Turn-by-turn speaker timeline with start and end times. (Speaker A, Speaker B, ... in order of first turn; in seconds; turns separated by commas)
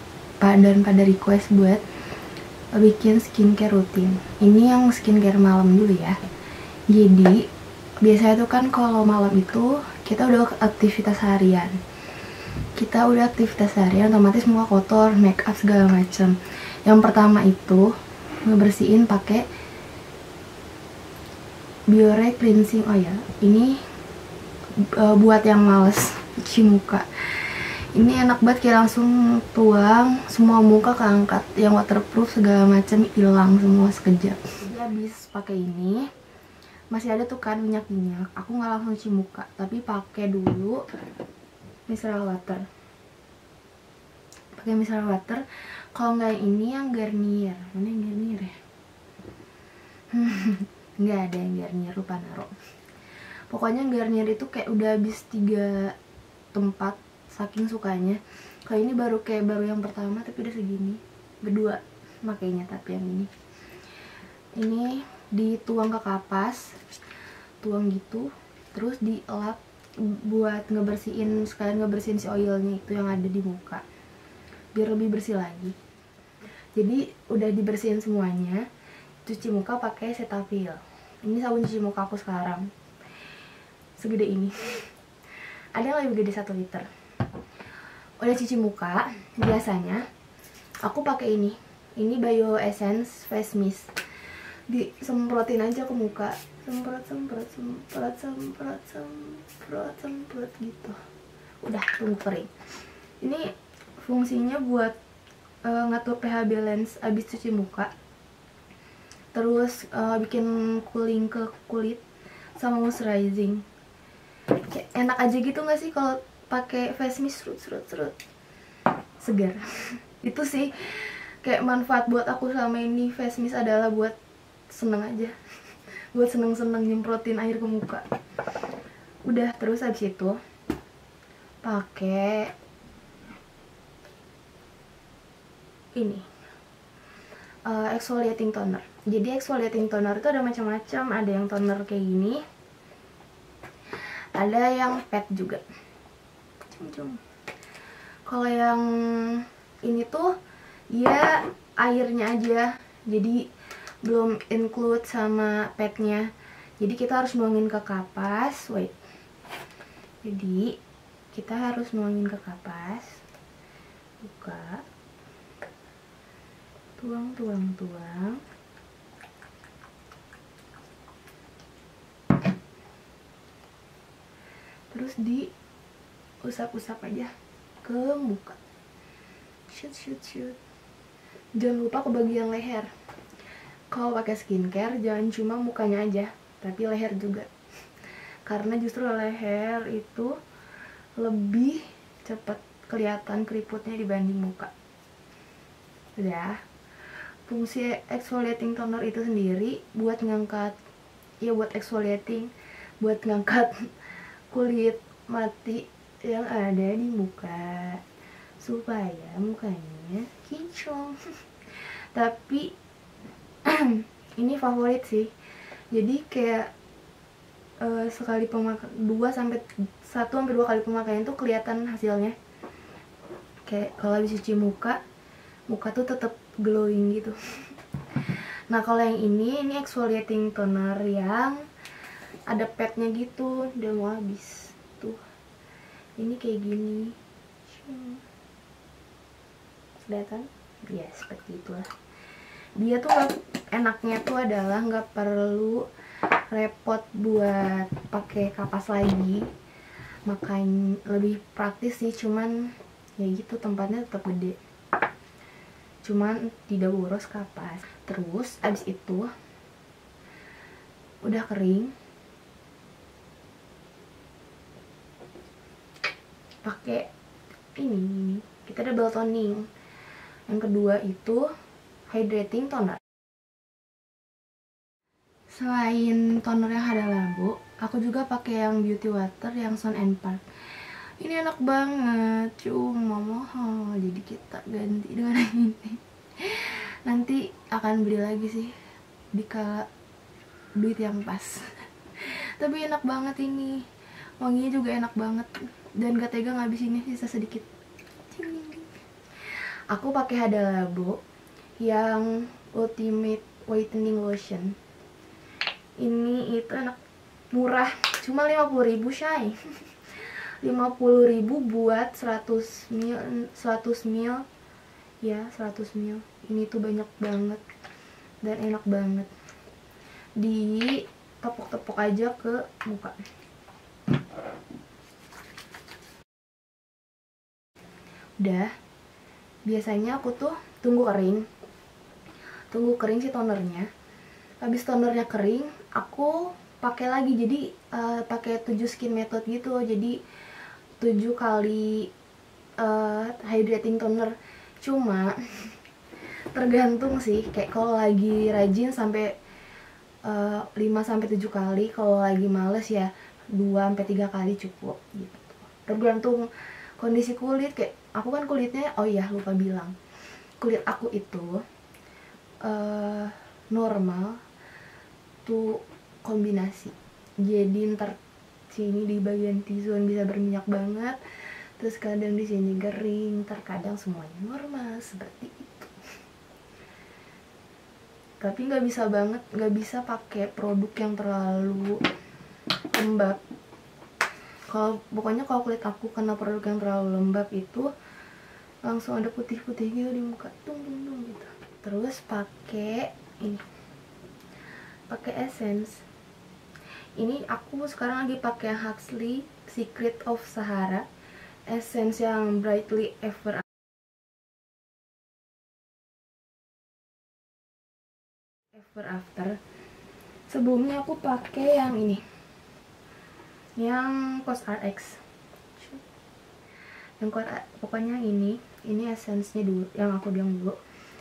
Speaker A: 0.4-1.8, Speaker A: 2.7-6.2, Speaker A: 6.9-7.5, Speaker A: 8.0-11.8, Speaker A: 12.8-17.9, Speaker A: 18.4-19.4, Speaker A: 21.9-23.8, Speaker A: 24.9-36.1, Speaker A: 36.9-40.8, Speaker A: 41.9-42.6, Speaker A: 44.5-45.4, Speaker A: 45.9-48.5, Speaker A: 50.1-52.5, Speaker A: 53.5-55.9, Speaker A: 56.5-63.3, Speaker A: 64.6-66.8, Speaker A: 67.6-73.8, Speaker A: 74.7-75.8, Speaker A: 76.8-78.7, Speaker A: 79.2-82.7, Speaker A: 84.0-84.9, Speaker A: 85.7-86.9, Speaker A: 88.2-90.0, Speaker A: 90.8-94.0, Speaker A: 94.7-101.0, Speaker A: 101.6-102.5, Speaker A: 103.2-105.0, Speaker A: 105.6-107.9, Speaker A: 109.3-112.0, Speaker A: 112.6-113.6, Speaker A: 114.7-118.1, Speaker A: 119.2-124.1, Speaker A: 124.7-125.3, Speaker A: 126.1-128.0, Speaker A: 129.2-130.4, Speaker A: 131.6-132.5, Speaker A: 135.9-136.3, Speaker A: 137.7-142.4, Speaker A: 144.3-145.6, Speaker A: 146.7-147.2, Speaker A: 148.2-150.3, Speaker A: 150.9-153.4, Speaker A: 154.0-156.3, Speaker A: 156.8-158.9, Speaker A: 160.2-160.8, Speaker A: 161.3-163.2, Speaker A: 164.2-164.8, Speaker A: 167.0-168.4, Speaker A: 174.9-175.5, Speaker A: 176.4-177.3, Speaker A: 177.8-178.6, Speaker A: 179.7-180.6, Speaker A: 181.6-182.9, Speaker A: 183.9-187.5, Speaker A: 188.4-190.3, Speaker A: 191.2-194.7, Speaker A: 196.2-196.6, Speaker A: 197.5-200.8, Speaker A: 201.4-203.9, Speaker A: 204.5-208.0, Speaker A: 208.6-211.2, Speaker A: 211.7-212.7, Speaker A: 213.6-215.3, Speaker A: 215.9-216.7, Speaker A: 217.8-222.3, Speaker A: 223.7-225.0, Speaker A: 225.7-227.3, Speaker A: 228.3-231.6, Speaker A: 232.5-235.2, Speaker A: 236.2-238.2, Speaker A: 240.1-241.9, Speaker A: 242.8-245.8, Speaker A: 246.5-249.5, Speaker A: 250.3-254.6, Speaker A: 256.0-259.3, Speaker A: 261.2-261.9, Speaker A: 266.6-267.1, Speaker A: 267.8-269.7, Speaker A: 270.5-271.5, Speaker A: 272.1-273.0, Speaker A: 275.5-288.7, Speaker A: 289.3-289.9, Speaker A: 290.8-293.8, Speaker A: 294.4-297.7, Speaker A: 298.3-298.9, Speaker A: 299.5-301.2, Speaker A: 301.8-304.8, Speaker A: 306.0-307.0, Speaker A: 307.5-309.6, Speaker A: 310.1-314.4, Speaker A: 315.2-317.6, Speaker A: 318.4-319.3, Speaker A: 320.4-323.2, Speaker A: 328.4-328.7, Speaker A: 329.6-331.5, Speaker A: 332.7-333.9, Speaker A: 334.6-340.2, Speaker A: 341.0-342.1, Speaker A: 342.8-345.7, Speaker A: 346.5-349.3, Speaker A: 350.2-359.9, Speaker A: 360.6-361.6, Speaker A: 362.6-364.4, Speaker A: 365.4-368.2, Speaker A: 368.7-371.2, Speaker A: 371.8-375.9, Speaker A: 378.4-382.0, Speaker A: 382.9-383.4, Speaker A: 384.7-387.9, Speaker A: 388.8-393.6, Speaker A: 395.1-396.0, Speaker A: 397.2-401.1, Speaker A: 401.7-403.6, Speaker A: 408.7-409.6, Speaker A: 410.5-412.2, Speaker A: 413.8-415.2, Speaker A: 415.8-416.0, Speaker A: 417.2-420.8